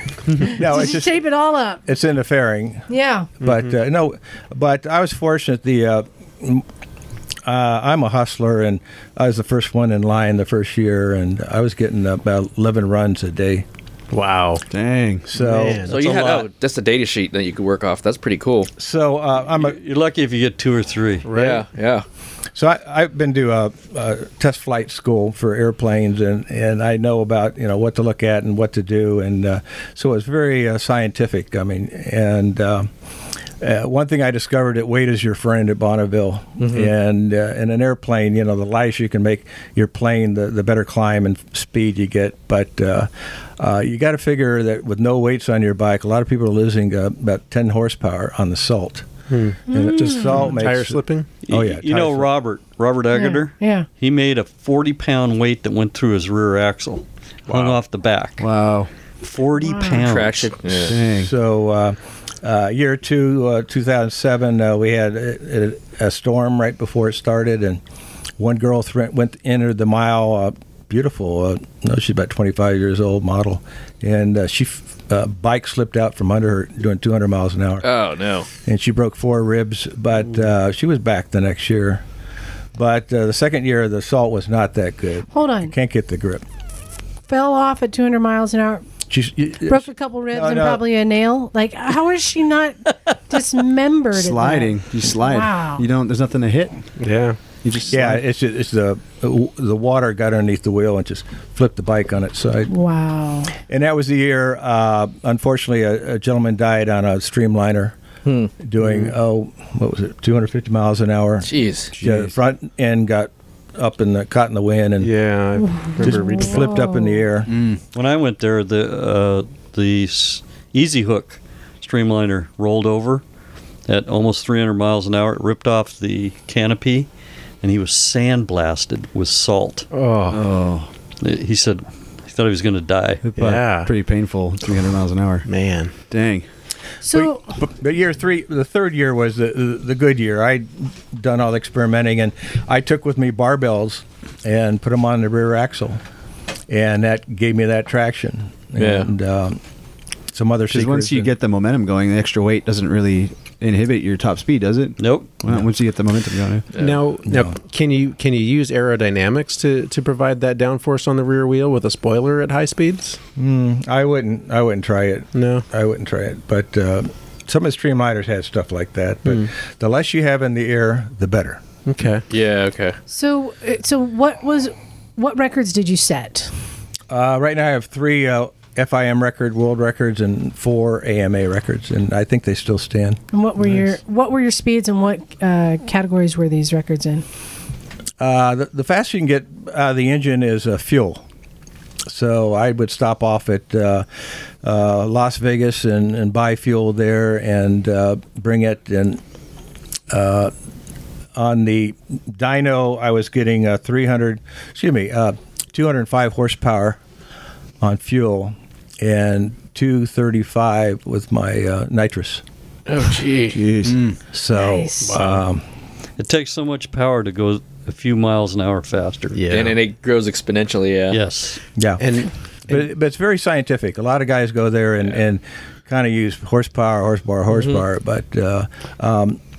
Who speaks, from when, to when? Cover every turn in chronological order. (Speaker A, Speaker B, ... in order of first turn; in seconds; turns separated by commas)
Speaker A: 0.4-1.2, Speaker B: 0.4-1.8, Speaker A: 1.9-2.9, Speaker B: 2.9-3.3, Speaker A: 3.4-6.7, Speaker C: 3.4-3.7, Speaker A: 7.5-13.7, Speaker C: 14.1-14.6, Speaker D: 14.7-15.3, Speaker A: 15.3-15.9, Speaker C: 15.4-16.0, Speaker E: 15.9-18.7, Speaker F: 15.9-16.5, Speaker A: 18.8-19.8, Speaker F: 19.6-21.3, Speaker C: 21.2-21.7, Speaker E: 21.3-22.0, Speaker A: 22.6-32.9, Speaker A: 33.6-49.1, Speaker E: 36.6-36.9, Speaker C: 49.3-51.4, Speaker A: 49.7-52.3, Speaker B: 49.7-50.5, Speaker F: 51.4-58.5, Speaker B: 53.1-53.9, Speaker C: 57.5-57.8, Speaker D: 58.4-58.9, Speaker F: 59.2-60.6, Speaker B: 59.6-60.1, Speaker E: 60.0-61.0, Speaker D: 60.9-61.3, Speaker A: 61.0-67.8, Speaker A: 68.4-77.9, Speaker E: 77.8-78.5, Speaker A: 78.7-82.0, Speaker A: 82.8-86.4, Speaker B: 85.3-85.7, Speaker B: 87.3-88.9, Speaker A: 89.1-90.8, Speaker B: 89.7-95.8, Speaker D: 94.1-96.8, Speaker C: 97.0-97.4, Speaker D: 97.6-98.2, Speaker A: 97.9-102.7, Speaker B: 102.7-103.5, Speaker A: 103.7-108.0, Speaker E: 108.2-108.5, Speaker A: 108.6-115.2, Speaker C: 108.8-109.1, Speaker E: 111.4-111.9, Speaker D: 112.0-112.3, Speaker C: 115.0-116.8, Speaker B: 115.6-117.2, Speaker A: 116.0-117.5, Speaker F: 117.9-123.2, Speaker F: 123.9-127.1, Speaker F: 127.6-129.9, Speaker C: 129.9-130.4, Speaker D: 130.3-130.9, Speaker F: 131.2-133.3, Speaker D: 133.2-136.5, Speaker C: 133.4-133.9, Speaker C: 135.4-135.9, Speaker B: 137.0-137.6, Speaker A: 137.1-146.0, Speaker A: 146.7-149.6, Speaker E: 148.8-149.1, Speaker A: 150.3-151.3, Speaker D: 150.7-156.7, Speaker F: 155.0-155.4, Speaker E: 156.7-157.0, Speaker C: 156.8-163.2, Speaker A: 157.3-157.6, Speaker A: 163.4-171.6, Speaker C: 165.3-165.7, Speaker C: 171.9-172.2, Speaker E: 172.3-173.0, Speaker B: 173.1-176.5, Speaker A: 177.1-183.2, Speaker B: 183.3-187.2, Speaker A: 188.2-191.2, Speaker A: 192.1-194.1, Speaker A: 194.6-199.2, Speaker A: 200.1-200.5, Speaker A: 201.3-207.0, Speaker A: 207.8-212.4, Speaker E: 212.9-213.6, Speaker D: 213.5-214.1, Speaker A: 214.3-215.6, Speaker B: 214.5-215.2, Speaker C: 215.1-215.4, Speaker F: 216.2-219.4, Speaker C: 219.3-219.8, Speaker E: 219.5-221.2, Speaker F: 221.1-221.6, Speaker A: 221.8-222.1, Speaker C: 222.0-222.9, Speaker A: 222.7-229.4, Speaker E: 227.5-227.8